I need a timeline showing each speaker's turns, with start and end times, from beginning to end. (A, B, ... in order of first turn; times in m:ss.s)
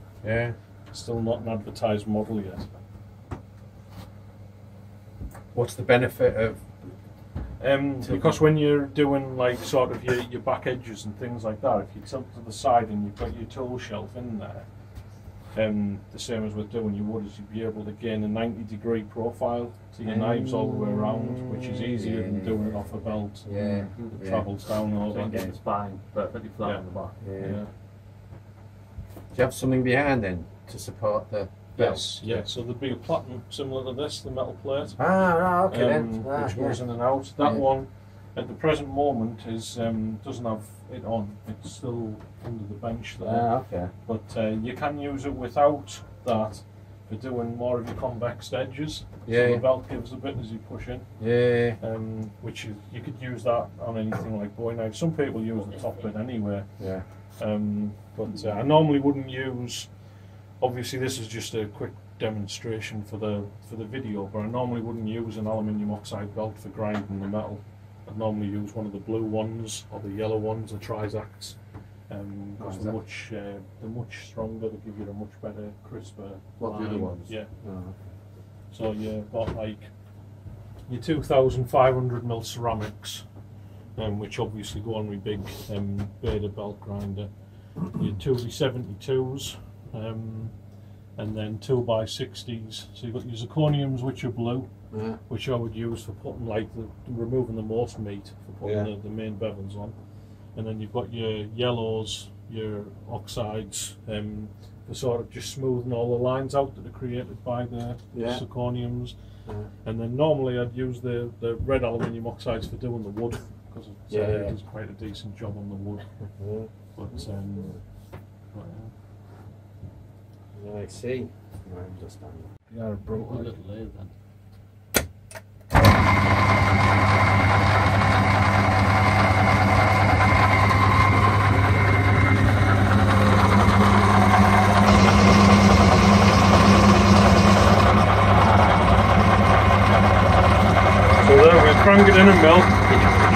0:00.2-0:00.6 A
0:00.9-0:02.7 B
0:05.5-0:06.6 A
0:07.6-0:25.5 B
0:08.0-0:08.3 A
0:20.0-0:22.8 A
0:23.4-0:24.5 A
0:25.1-0:27.2 C
0:25.1-0:25.6 A
0:26.6-0:27.7 B
0:27.2-0:27.6 A
0:29.3-0:32.4 A
0:31.8-0:35.0 B
0:35.0-0:36.8 A
0:35.6-1:17.5 B
0:37.4-0:37.7 A
0:43.2-0:43.9 A
0:49.2-0:49.6 A
0:51.2-0:51.8 A
0:56.8-0:57.0 A
1:12.6-1:13.0 A
1:16.6-1:18.0 A
1:18.7-1:19.9 B
1:20.8-1:23.2 B
1:23.9-1:30.6 B
1:31.1-1:34.7 B
1:34.9-1:35.2 A
1:35.3-1:56.3 B
1:38.6-1:38.9 A
1:48.1-1:48.4 A
1:54.1-1:54.6 A
1:56.4-1:57.7 A
1:56.9-1:58.9 B
2:00.5-2:02.5 A
2:02.7-2:04.1 B
2:21.2-2:23.0 B